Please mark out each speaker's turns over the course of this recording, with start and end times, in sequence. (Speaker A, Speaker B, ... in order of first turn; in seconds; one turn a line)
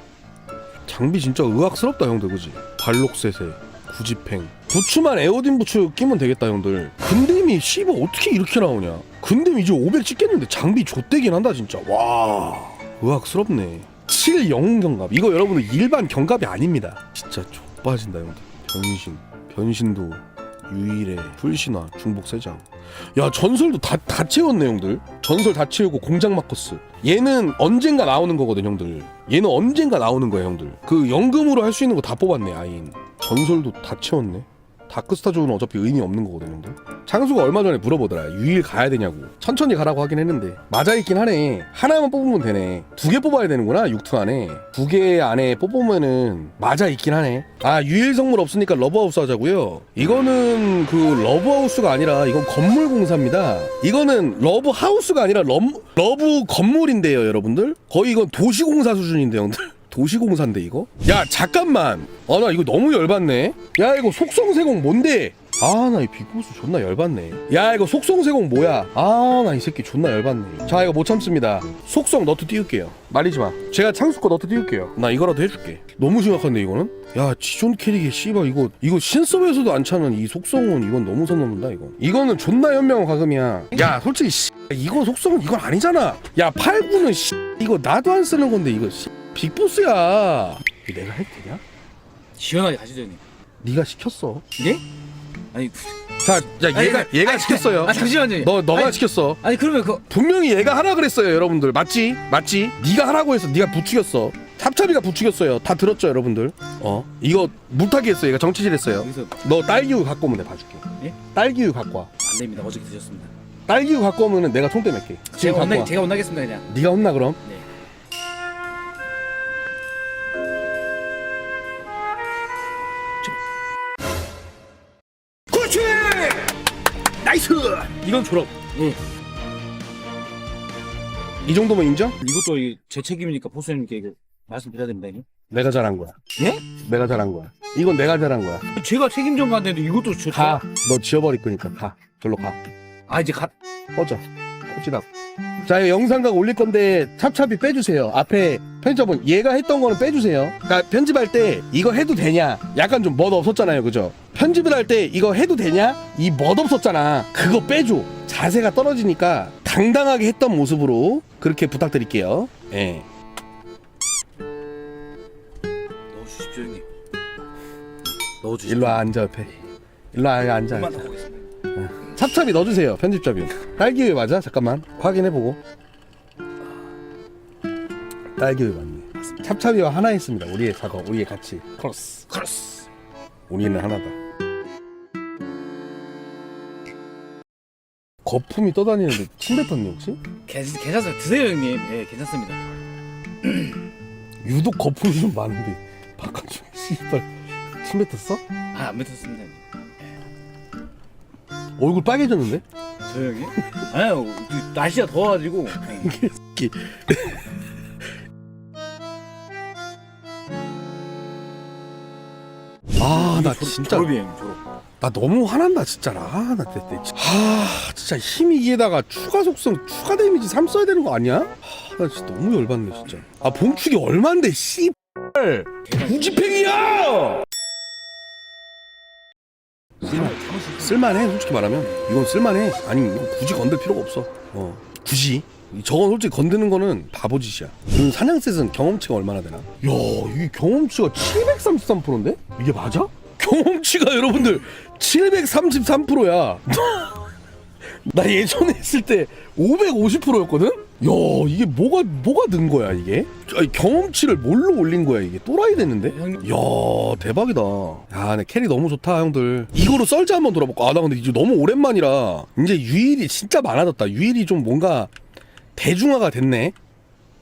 Speaker A: 0.8-91.6
Speaker B: 92.4-93.2
Speaker A: 93.6-94.4
Speaker B: 94.6-94.8
Speaker B: 95.5-100.0
Speaker A: 96.2-99.4
Speaker A: 100.1-112.1
Speaker B: 109.0-109.3
Speaker B: 112.2-113.3
Speaker A: 113.7-116.0
Speaker B: 115.3-116.7
Speaker A: 116.7-117.4
Speaker B: 125.5-126.5
Speaker A: 127.2-128.5
Speaker B: 128.6-129.0
Speaker A: 131.4-132.1
Speaker B: 132.2-135.2
Speaker A: 135.5-138.7
Speaker B: 136.3-136.7
Speaker B: 138.7-140.6
Speaker A: 140.3-142.6
Speaker B: 143.1-143.5
Speaker A: 143.9-145.0
Speaker A: 145.6-163.1
Speaker B: 166.1-166.8
Speaker B: 168.4-169.1
Speaker A: 168.6-169.5
Speaker A: 170.1-171.1
Speaker B: 170.7-171.4
Speaker A: 171.8-175.6
Speaker A: 178.4-182.4
Speaker B: 182.3-182.8
Speaker A: 183.5-184.2
Speaker A: 188.2-190.2
Speaker B: 190.4-192.6
Speaker B: 193.4-193.8
Speaker A: 194.4-197.3
Speaker A: 197.8-198.4
Speaker B: 198.7-199.6
Speaker A: 201.8-202.6
Speaker B: 203.0-206.1
Speaker A: 205.9-207.4
Speaker A: 213.0-214.1
Speaker B: 213.0-214.6
Speaker A: 215.0-227.4
Speaker B: 225.9-226.5
Speaker B: 230.0-231.2
Speaker A: 230.0-247.1
Speaker B: 231.8-232.1
Speaker A: 248.1-265.1
Speaker B: 256.1-256.4
Speaker A: 265.8-266.8